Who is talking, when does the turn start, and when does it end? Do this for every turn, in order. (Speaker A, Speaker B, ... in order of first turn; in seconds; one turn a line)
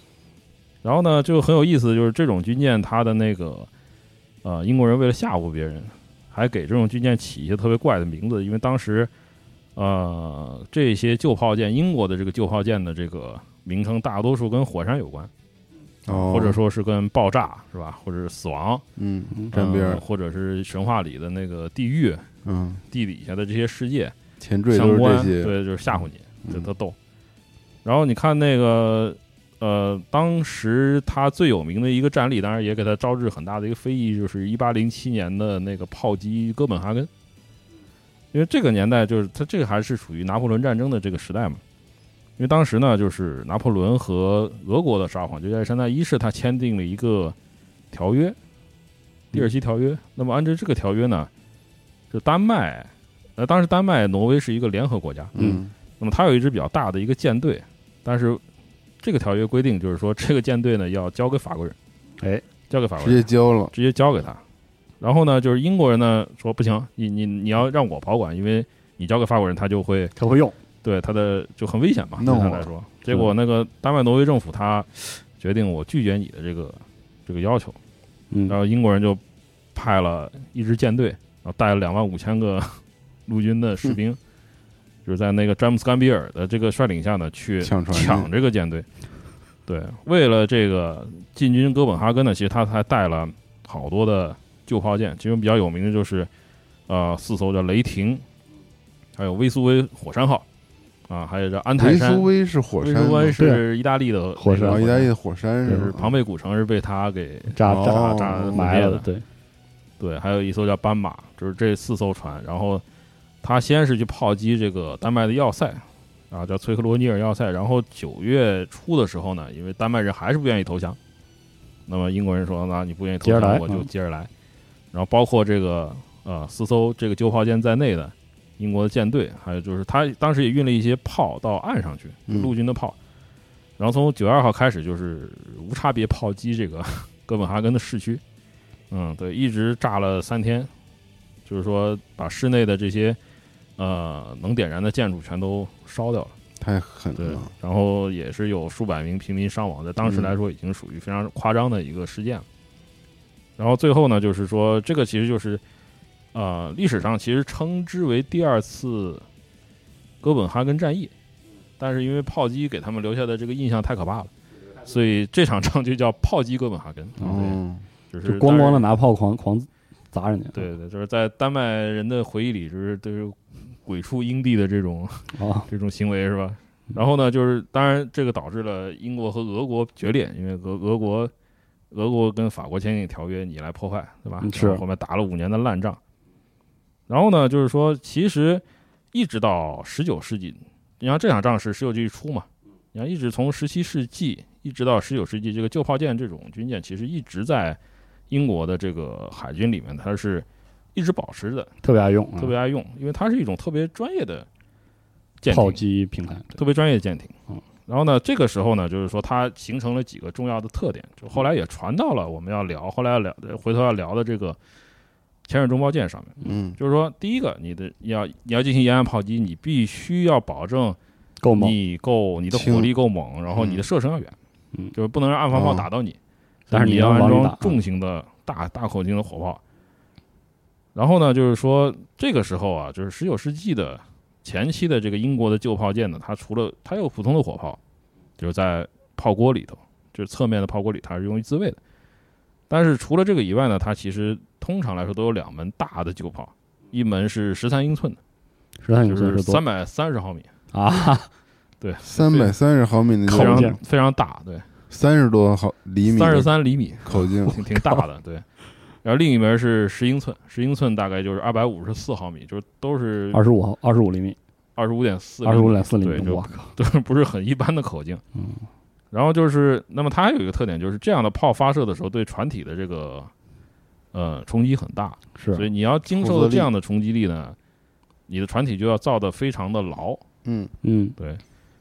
Speaker A: 0.8-3.7
Speaker A: 4.4-9.1
Speaker A: 9.8-15.3
Speaker B: 16.1-16.6
Speaker A: 16.1-18.8
Speaker B: 18.9-20.0
Speaker A: 19.5-22.2
Speaker B: 22.4-22.8
Speaker A: 22.9-24.1
Speaker B: 24.4-25.6
Speaker A: 24.7-26.9
Speaker A: 27.8-37.1
Speaker A: 38.3-41.6
Speaker A: 42.4-47.3
Speaker A: 47.9-48.4
Speaker A: 49.3-51.3
Speaker A: 52.1-55.3
Speaker B: 55.3-55.7
Speaker A: 56.0-58.4
Speaker A: 59.0-61.7
Speaker A: 62.7-64.4
Speaker B: 63.0-63.7
Speaker A: 65.0-70.1
Speaker C: 70.2-70.5
Speaker A: 70.8-77.8
Speaker B: 72.2-72.7
Speaker C: 78.3-78.6
Speaker A: 78.5-79.2
Speaker A: 79.7-84.2
Speaker A: 85.0-88.8
Speaker B: 87.6-88.3
Speaker A: 89.7-96.3
Speaker A: 96.9-98.2
Speaker A: 99.2-100.4
Speaker A: 101.1-102.3
Speaker B: 101.8-103.4
Speaker A: 102.8-105.1
Speaker C: 104.4-104.9
Speaker B: 104.6-106.2
Speaker A: 105.7-109.0
Speaker C: 107.5-109.2
Speaker B: 107.6-108.7
Speaker A: 110.0-112.8
Speaker A: 113.4-121.0
Speaker A: 121.9-124.3
Speaker C: 123.2-123.9
Speaker A: 124.9-132.9
Speaker A: 133.8-138.2
Speaker A: 138.9-140.7
Speaker A: 141.4-143.2
Speaker A: 143.8-146.3
Speaker B: 146.6-147.5
Speaker A: 147.2-152.4
Speaker B: 150.0-150.3
Speaker A: 153.6-155.6
Speaker A: 156.3-159.2
Speaker A: 160.2-161.1
Speaker A: 161.8-167.6
Speaker B: 167.2-167.8
Speaker A: 168.1-168.8
Speaker C: 168.2-170.7
Speaker A: 170.5-181.3
Speaker C: 175.3-175.7
Speaker A: 181.9-186.0
Speaker C: 184.4-184.8
Speaker A: 187.1-197.8
Speaker A: 198.3-201.7
Speaker C: 201.8-202.5
Speaker A: 202.4-204.5
Speaker A: 205.4-205.8
Speaker C: 205.5-206.5
Speaker A: 206.5-207.3
Speaker A: 207.9-214.6
Speaker A: 215.4-221.0
Speaker B: 216.4-216.8
Speaker C: 221.4-221.7
Speaker A: 221.6-224.3
Speaker B: 222.5-222.9
Speaker B: 223.5-223.8
Speaker A: 224.9-226.2
Speaker B: 225.5-225.9
Speaker A: 226.7-229.6
Speaker C: 226.7-227.8
Speaker A: 230.9-237.8
Speaker A: 238.4-241.8
Speaker A: 242.7-248.2
Speaker C: 248.8-249.6
Speaker A: 249.1-250.5
Speaker C: 250.7-251.3
Speaker A: 251.8-252.5
Speaker B: 252.0-253.8
Speaker C: 253.3-253.8
Speaker A: 253.3-254.6
Speaker B: 254.9-256.5
Speaker A: 256.1-258.4
Speaker B: 257.0-257.6
Speaker C: 257.7-258.0
Speaker A: 259.0-263.4
Speaker C: 263.3-264.4
Speaker A: 264.8-268.2
Speaker C: 265.4-266.7
Speaker C: 268.4-268.6
Speaker A: 269.1-273.3
Speaker A: 274.1-277.6
Speaker C: 275.4-275.6
Speaker B: 276.1-276.7
Speaker A: 278.3-280.2
Speaker B: 280.4-280.7
Speaker C: 280.8-281.2